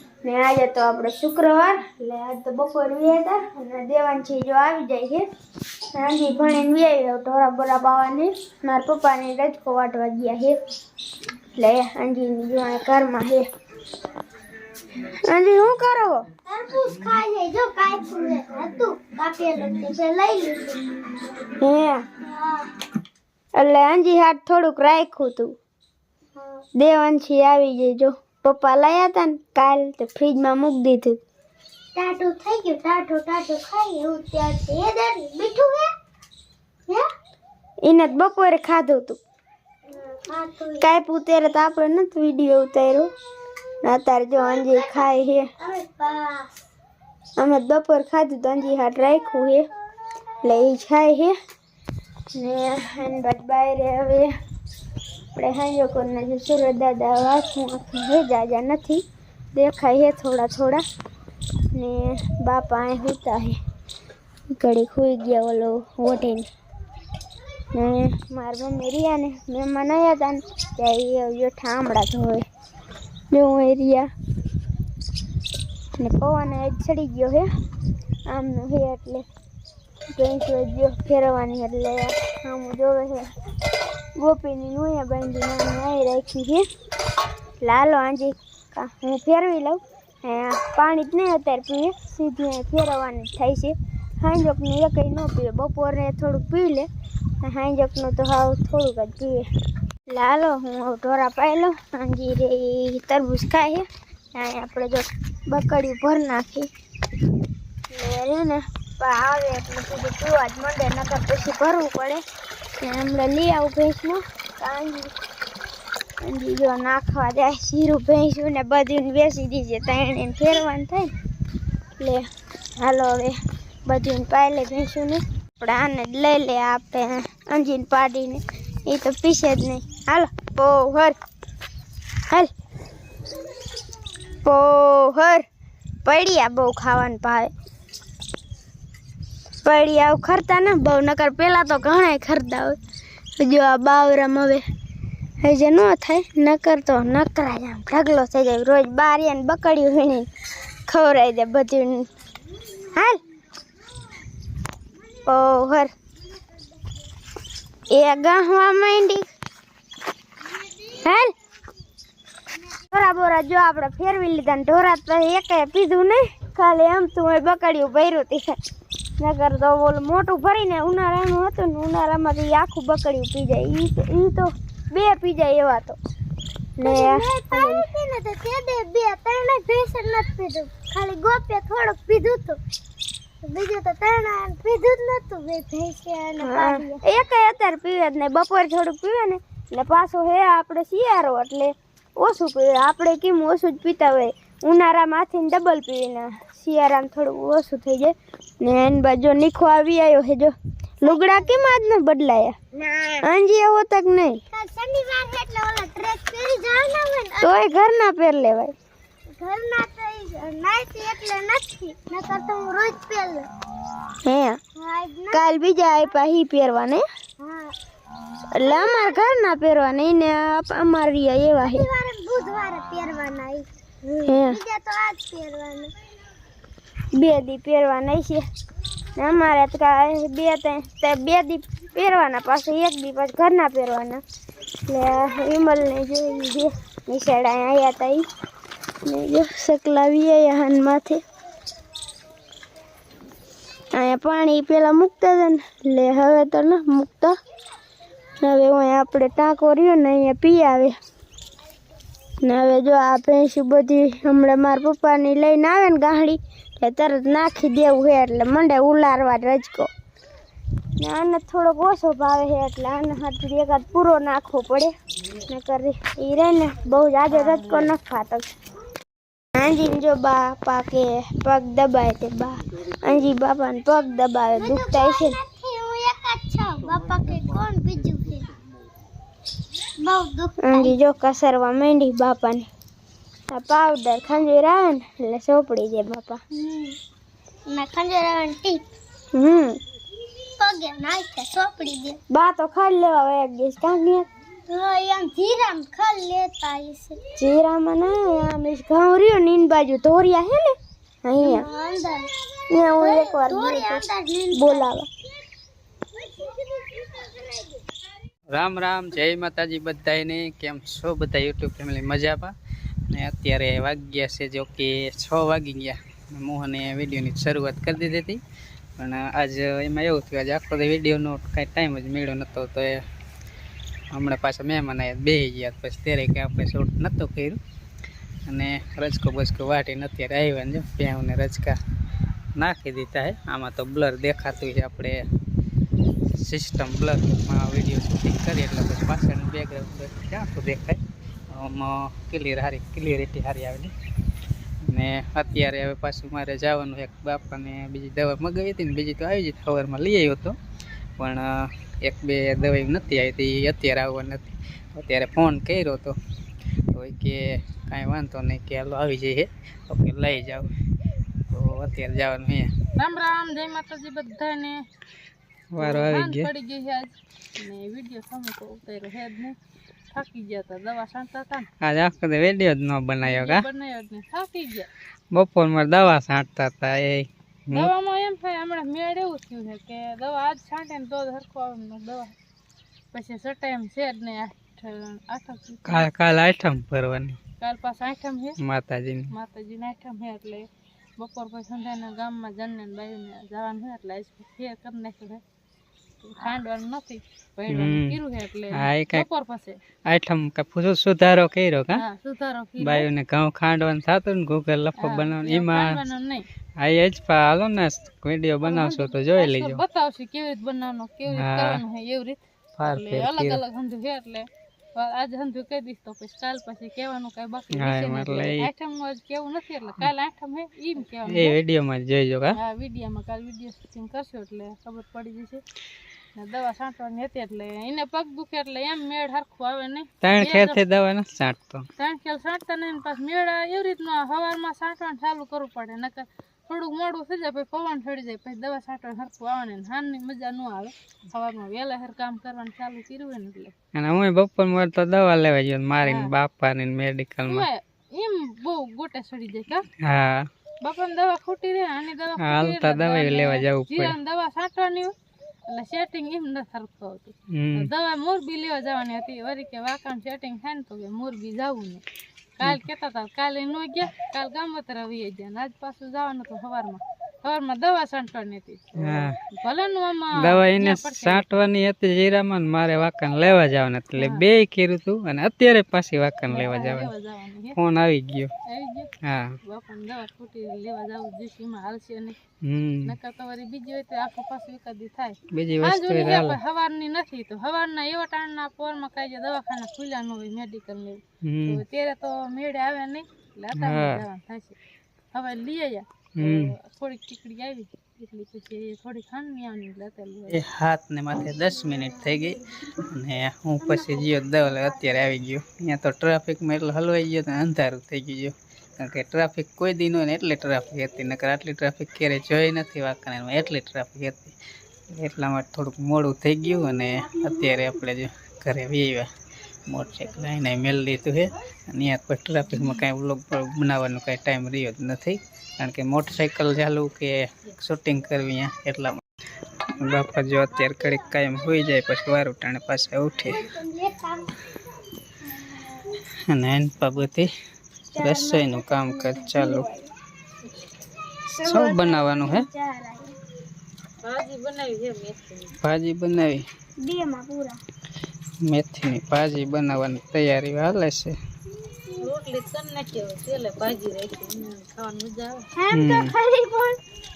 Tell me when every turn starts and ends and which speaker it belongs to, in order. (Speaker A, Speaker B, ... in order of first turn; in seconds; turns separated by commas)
Speaker A: 0.2-5.2, Speaker A: 5.9-10.6, Speaker A: 11.5-13.4, Speaker A: 15.2-16.2, Speaker B: 16.5-21.5, Speaker A: 21.6-22.0, Speaker B: 22.2-22.7, Speaker A: 23.6-25.5, Speaker B: 26.4-26.6, Speaker A: 26.8-31.2, Speaker B: 31.9-35.9, Speaker A: 37.8-39.2, Speaker B: 39.9-40.9, Speaker A: 40.8-43.1, Speaker A: 43.8-45.5, Speaker B: 44.3-46.5, Speaker A: 47.4-49.6, Speaker A: 50.4-51.3, Speaker A: 52.3-54.3, Speaker A: 55.3-59.0, Speaker A: 59.5-60.8, Speaker A: 61.7-63.6, Speaker A: 64.5-66.5, Speaker A: 67.7-72.4, Speaker A: 73.3-74.1, Speaker A: 76.0-77.5, Speaker A: 78.3-79.2, Speaker A: 80.1-83.2, Speaker A: 84.2-86.6, Speaker A: 87.6-96.9, Speaker A: 97.4-99.5, Speaker A: 100.1-106.7, Speaker A: 107.9-112.2, Speaker A: 112.8-115.1, Speaker A: 116.2-121.1, Speaker A: 122.8-123.3, Speaker A: 123.8-131.1, Speaker A: 134.4-135.4, Speaker A: 136.0-137.5, Speaker A: 139.6-142.8, Speaker A: 143.4-144.6, Speaker A: 145.4-150.3, Speaker A: 150.9-152.1, Speaker A: 152.8-153.2, Speaker A: 155.2-155.9, Speaker A: 157.9-159.2, Speaker A: 160.9-161.3, Speaker A: 162.9-168.6, Speaker A: 169.2-176.0, Speaker A: 176.8-177.9, Speaker B: 176.8-182.6, Speaker B: 183.4-187.0, Speaker A: 186.4-202.6, Speaker B: 201.0-201.6, Speaker B: 202.8-203.2, Speaker A: 203.2-204.4, Speaker B: 204.5-207.7, Speaker A: 207.4-208.7, Speaker B: 209.3-213.5, Speaker A: 214.2-214.6, Speaker B: 214.8-215.5, Speaker A: 215.3-217.0, Speaker B: 217.4-217.7, Speaker A: 218.5-221.9, Speaker B: 218.7-219.3, Speaker B: 221.6-225.9, Speaker A: 224.2-224.6, Speaker A: 227.1-228.4, Speaker A: 229.2-234.2, Speaker A: 234.9-238.2, Speaker A: 239.0-241.2, Speaker A: 243.9-247.3, Speaker A: 248.4-250.9, Speaker A: 252.4-259.9, Speaker A: 261.0-264.9, Speaker A: 265.5-268.5, Speaker C: 267.3-267.9, Speaker A: 269.6-275.4, Speaker B: 274.5-278.5, Speaker B: 280.0-280.9, Speaker A: 280.6-282.6, Speaker A: 283.5-286.4, Speaker B: 286.5-287.0, Speaker B: 287.7-288.8, Speaker A: 289.3-289.8, Speaker B: 290.6-292.2, Speaker A: 292.3-294.2, Speaker B: 294.7-297.2, Speaker A: 297.4-301.7, Speaker B: 301.4-302.3, Speaker A: 302.7-305.1, Speaker B: 302.9-304.9, Speaker B: 306.1-307.8, Speaker D: 308.5-312.5, Speaker D: 313.1-318.4, Speaker D: 319.0-323.0, Speaker D: 324.1-327.6, Speaker D: 328.4-331.8, Speaker D: 332.6-335.2, Speaker D: 336.3-341.0, Speaker D: 341.5-343.9, Speaker D: 344.8-350.6, Speaker D: 351.2-356.1, Speaker D: 356.9-360.7, Speaker D: 361.5-362.7, Speaker C: 362.9-364.8, Speaker D: 365.7-366.5, Speaker C: 365.8-369.5, Speaker C: 370.1-371.7, Speaker D: 371.8-373.6, Speaker C: 373.2-374.9, Speaker D: 375.3-377.9, Speaker C: 377.7-382.3, Speaker C: 383.1-386.1, Speaker D: 385.9-387.4, Speaker C: 387.6-388.6, Speaker D: 388.6-389.3, Speaker C: 389.3-390.6, Speaker C: 391.2-395.4, Speaker C: 396.2-399.8, Speaker D: 397.7-398.2, Speaker D: 398.7-399.2, Speaker D: 400.1-402.0, Speaker C: 401.9-403.1, Speaker D: 402.8-405.9, Speaker C: 405.0-406.4, Speaker D: 406.8-409.8, Speaker C: 408.6-412.4, Speaker D: 411.3-411.8, Speaker D: 412.8-413.6, Speaker C: 412.9-421.6, Speaker D: 417.8-418.7, Speaker D: 421.3-422.6, Speaker C: 422.6-425.6, Speaker C: 426.3-430.8, Speaker D: 430.2-431.9, Speaker C: 432.0-443.7, Speaker D: 443.9-447.7, Speaker C: 446.0-446.3, Speaker C: 447.4-449.9, Speaker D: 450.0-450.5, Speaker C: 450.8-455.1, Speaker D: 452.4-454.2, Speaker C: 455.7-462.0, Speaker D: 457.5-457.9, Speaker C: 462.6-471.5, Speaker D: 469.0-469.4, Speaker D: 470.4-477.1, Speaker C: 474.1-474.4, Speaker C: 476.5-477.8, Speaker D: 477.7-478.5, Speaker C: 478.7-479.1, Speaker D: 479.2-479.6, Speaker C: 479.6-482.4, Speaker D: 482.6-483.1, Speaker C: 483.0-494.8, Speaker D: 485.5-486.6, Speaker D: 491.4-491.8, Speaker D: 493.7-494.2, Speaker C: 495.3-500.6, Speaker D: 496.4-496.7, Speaker D: 500.5-514.5, Speaker D: 515.1-519.3, Speaker D: 519.9-529.2, Speaker D: 529.8-533.6, Speaker B: 533.5-534.5, Speaker D: 536.5-537.5, Speaker D: 538.1-539.9, Speaker A: 538.1-540.1, Speaker A: 541.5-543.3, Speaker D: 541.6-542.6, Speaker C: 544.2-545.7, Speaker D: 545.8-546.6, Speaker A: 547.0-547.8, Speaker D: 548.6-551.4, Speaker C: 552.2-555.6, Speaker A: 555.8-556.9, Speaker D: 555.9-556.3